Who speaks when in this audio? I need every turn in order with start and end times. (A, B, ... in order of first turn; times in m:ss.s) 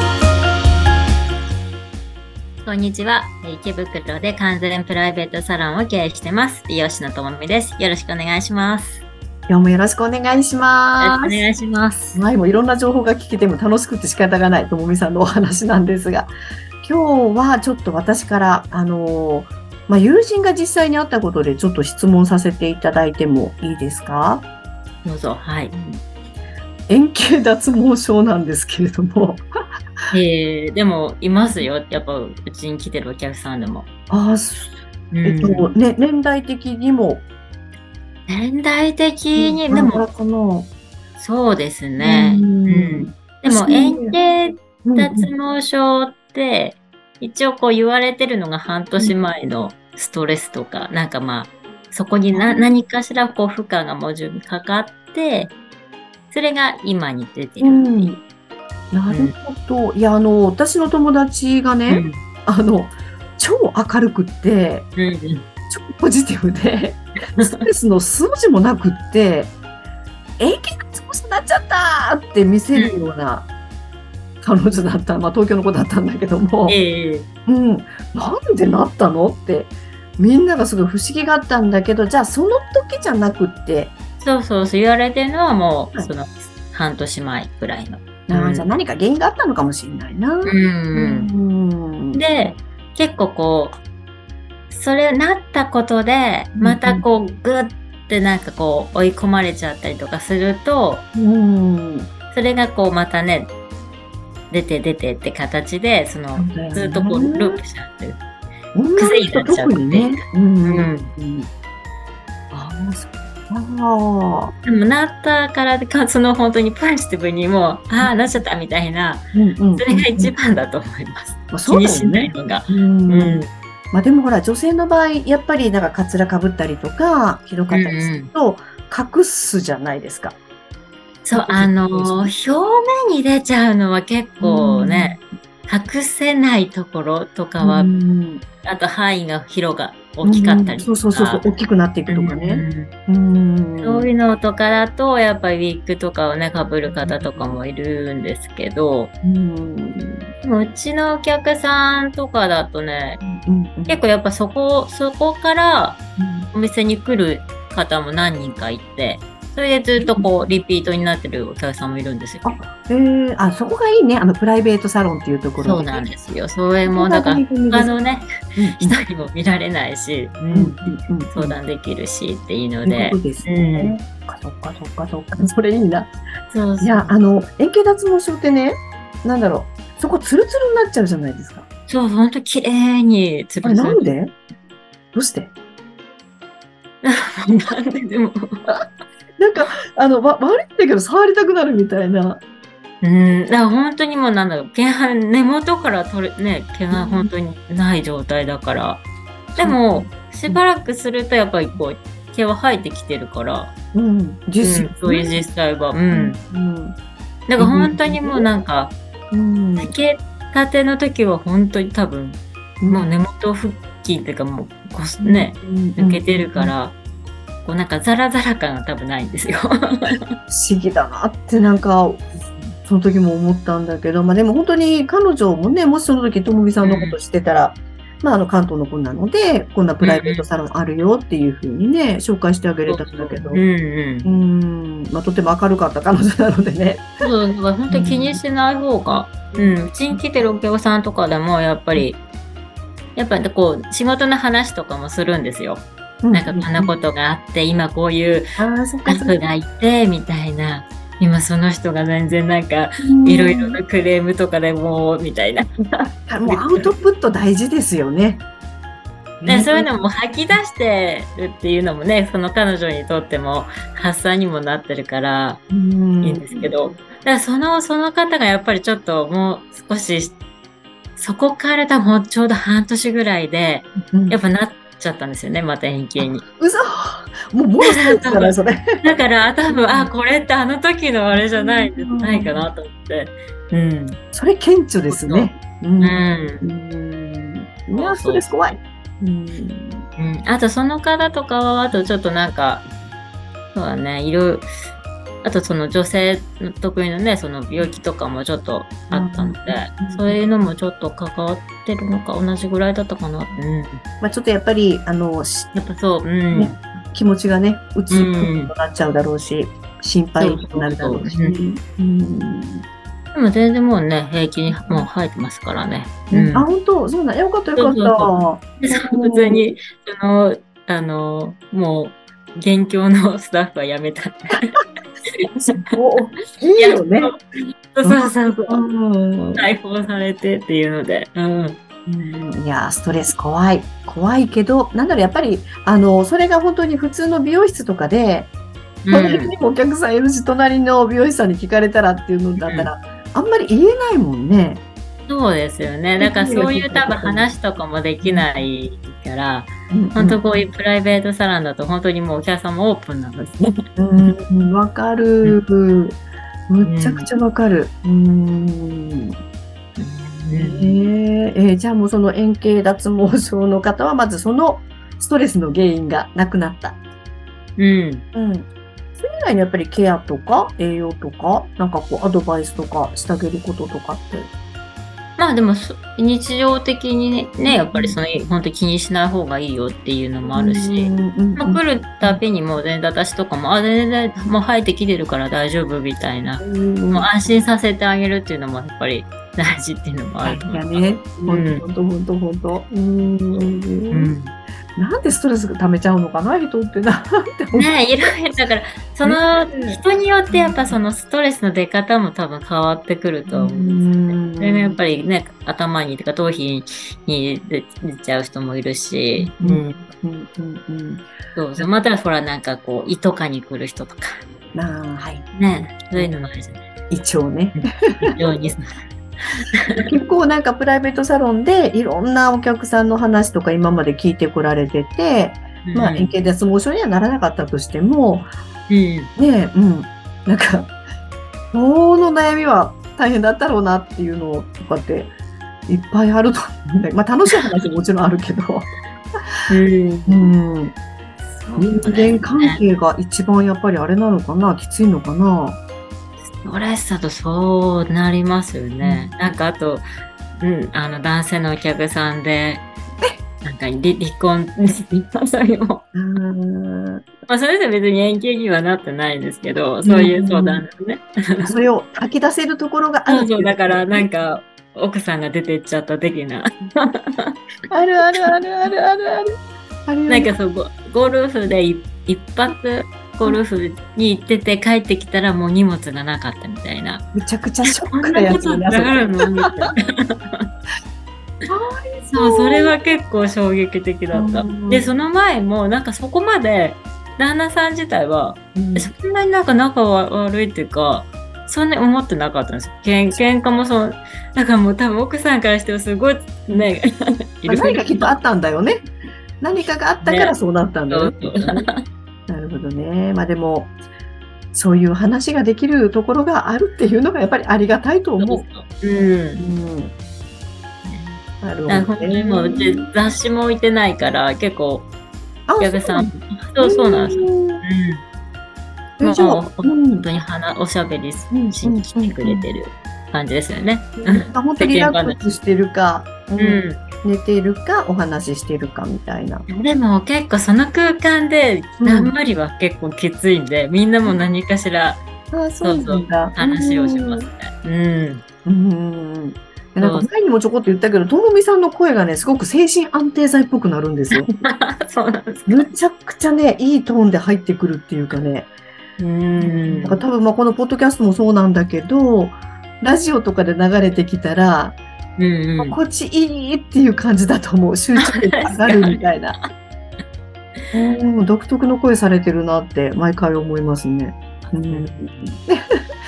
0:02.6-0:09.0 A
0:09.5-0:11.4 B
0:11.0-0:12.2 A
0:12.1-0:24.4 B
0:25.0-0:25.7 A
0:25.7-0:26.0 B
0:26.9-0:29.4 B
0:30.1-0:33.9 A
0:34.1-0:37.2 B
0:35.1-0:35.7 A
0:38.3-0:40.0 A
0:39.4-0:40.7 B
0:41.2-0:55.5 A
0:42.0-0:44.2 B
0:44.8-0:45.3 B
0:52.3-0:52.7 B
0:56.3-0:58.1 A
0:57.6-0:58.2 B
0:58.9-1:04.9 B
1:01.9-1:02.2 A
1:05.0-1:05.4 A
1:05.7-1:09.5 B
1:07.4-1:07.7 A
1:10.4-1:13.5 B
1:12.7-1:13.0 A
1:14.4-1:16.8 B
1:16.6-1:17.3 A
1:17.5-1:23.9 B
1:24.2-1:28.6 A
1:28.3-1:32.2 B
1:30.4-1:31.3 A
1:32.1-1:33.8 A
1:34.7-1:41.0 A
1:36.6-1:37.0 B
1:41.1-1:42.1 B
1:42.3-1:43.5 A
1:44.5-1:48.2 A
1:46.3-1:47.6 B
1:48.7-1:51.5 B
1:49.0-1:51.1 A
1:52.5-1:54.5 B
1:54.6-2:03.5 A
1:59.3-2:00.3 B
2:01.5-2:10.4 B
2:07.7-2:08.3 A
2:11.2-2:17.9 A
2:11.3-2:12.3 B
2:14.4-2:15.2 B
2:17.6-2:18.4 B
2:18.6-2:21.5 A
2:20.2-2:24.1 B
2:22.1-2:22.9 A
2:23.8-2:29.1 A
2:26.8-2:27.6 B
2:29.2-2:30.3 B
2:30.4-2:33.2 A
2:33.2-2:34.0 B
2:33.9-2:36.0 A
2:36.2-2:36.5 B
2:36.5-2:42.6 A
2:40.0-2:40.3 B
2:42.4-2:46.2 B
2:45.6-2:53.9 A
2:46.8-2:47.9 B
2:48.6-2:49.0 B
2:50.5-2:51.6 B
2:52.8-2:56.1 B
2:56.5-2:57.1 A
2:56.8-3:01.6 B
3:01.9-3:04.0 A
3:03.6-3:04.3 B
3:05.1-3:05.5 B
3:07.0-3:08.4 A
3:09.4-3:12.4 B
3:13.0-3:19.0 A
3:16.9-3:17.3 B
3:19.5-3:20.6 B
3:19.6-3:23.7 A
3:23.9-3:25.4 B
3:24.6-3:26.4 A
3:26.1-3:27.0 B
3:27.5-3:29.0 A
3:27.6-3:28.5 B
3:29.3-3:29.9 B
3:29.8-3:37.0 A
3:35.2-3:36.7 B
3:37.6-3:40.2 A
3:40.5-3:53.6 B
3:42.5-3:42.7 A
3:46.8-3:47.2 A
3:50.0-3:50.4 A
3:52.9-3:54.3 A
3:54.2-3:57.3 B
3:57.2-4:02.2 A
3:57.9-3:58.4 B
3:59.6-4:00.2 B
4:03.2-4:08.5 A
4:06.2-4:06.9 B
4:08.6-4:09.4 B
4:09.0-4:16.9 A
4:13.0-4:13.8 B
4:16.3-4:18.4 B
4:19.4-4:19.9 B
4:19.4-4:25.6 A
4:25.7-4:26.7 B
4:26.2-4:30.4 A
4:31.2-4:36.4 A
4:34.1-4:34.4 B
4:36.2-4:39.0 B
4:37.9-4:44.2 A
4:39.7-4:40.1 B
4:41.3-4:42.7 B
4:44.3-4:50.1 B
4:45.1-4:46.7 A
4:47.9-4:48.7 A
4:50.2-4:52.9 A
4:53.7-4:54.7 A
4:55.4-5:04.0 A
4:59.1-5:00.4 B
5:04.2-5:05.8 B
5:05.7-5:06.8 A
5:06.5-5:12.8 B
5:08.1-5:08.7 A
5:10.4-5:11.6 A
5:13.3-5:16.7 A
5:14.7-5:15.1 B
5:16.3-5:19.7 B
5:17.8-5:24.7 A
5:25.2-5:25.9 A
5:25.5-5:27.3 B
5:26.8-5:27.4 A
5:27.9-5:28.8 A
5:28.0-5:29.7 B
5:29.6-5:31.8 A
5:32.1-5:38.5 B
5:39.0-5:39.5 A
5:39.1-5:44.8 B
5:42.6-5:42.9 A
5:45.3-5:53.8 A
5:46.2-5:47.5 B
5:48.2-5:48.7 B
5:49.9-5:50.4 B
5:54.0-5:59.4 B
5:56.8-5:57.3 A
6:00.0-6:01.0 A
6:00.5-6:07.0 B
6:07.8-6:08.2 A
6:08.3-6:14.5 B
6:15.4-6:31.8 A
6:17.6-6:18.2 B
6:20.5-6:22.4 B
6:26.6-6:27.3 B
6:30.4-6:34.3 B
6:33.2-6:34.5 A
6:35.0-6:38.6 B
6:37.7-6:50.0 A
6:39.2-6:40.9 B
6:43.5-6:45.0 B
6:49.4-6:51.9 B
6:51.5-6:54.4 A
6:54.7-6:55.4 B
6:55.5-6:56.8 A
6:57.1-6:58.3 B
6:57.8-6:59.0 A
6:59.7-7:00.0 A
6:59.9-7:08.5 B
7:05.8-7:06.3 A
7:08.9-7:09.3 A
7:09.4-7:10.9 B
7:11.7-7:15.3 B
7:15.9-7:18.9 B
7:19.7-7:20.5 A
7:20.3-7:20.9 B
7:21.6-7:22.8 A
7:21.8-7:25.8 B
7:26.6-7:30.0 A
7:29.0-7:29.3 B
7:30.6-7:32.9 A
7:33.6-7:36.0 A
7:36.1-7:37.2 B
7:37.5-7:41.7 A
7:40.0-7:40.8 B
7:41.6-7:44.3 B
7:43.3-7:47.5 A
7:47.9-7:50.5 B
7:50.3-7:57.3 A
7:57.3-7:59.9 B
7:57.8-8:00.7 A
8:01.7-8:03.0 B
8:02.3-8:18.4 A
8:04.3-8:05.1 B
8:08.7-8:09.1 B
8:17.7-8:19.0 B
8:19.6-8:21.9 B
8:20.2-8:20.5 A
8:21.1-8:22.0 A
8:22.5-8:23.9 B
8:24.7-8:28.6 B
8:28.4-8:29.6 A
8:29.6-8:30.1 B
8:31.0-8:35.1 A
8:31.6-8:33.1 B
8:35.7-8:37.8 B
8:35.8-8:38.2 A
8:39.2-8:40.3 B
8:39.2-8:45.6 A
8:41.5-8:42.6 B
8:44.2-8:49.6 B
8:46.6-8:47.0 A
8:49.7-8:55.2 A
8:52.0-8:52.3 B
8:55.5-8:57.5 B
8:55.8-8:58.4 A
8:58.6-9:04.5 B
9:00.0-9:00.3 A
9:04.4-9:05.9 A
9:05.7-9:08.7 B
9:09.2-9:10.2 A
9:09.6-9:15.0 B
9:15.4-9:16.0 A
9:15.8-9:19.6 B
9:18.2-9:19.6 A
9:20.9-9:26.0 B
9:24.7-9:25.3 A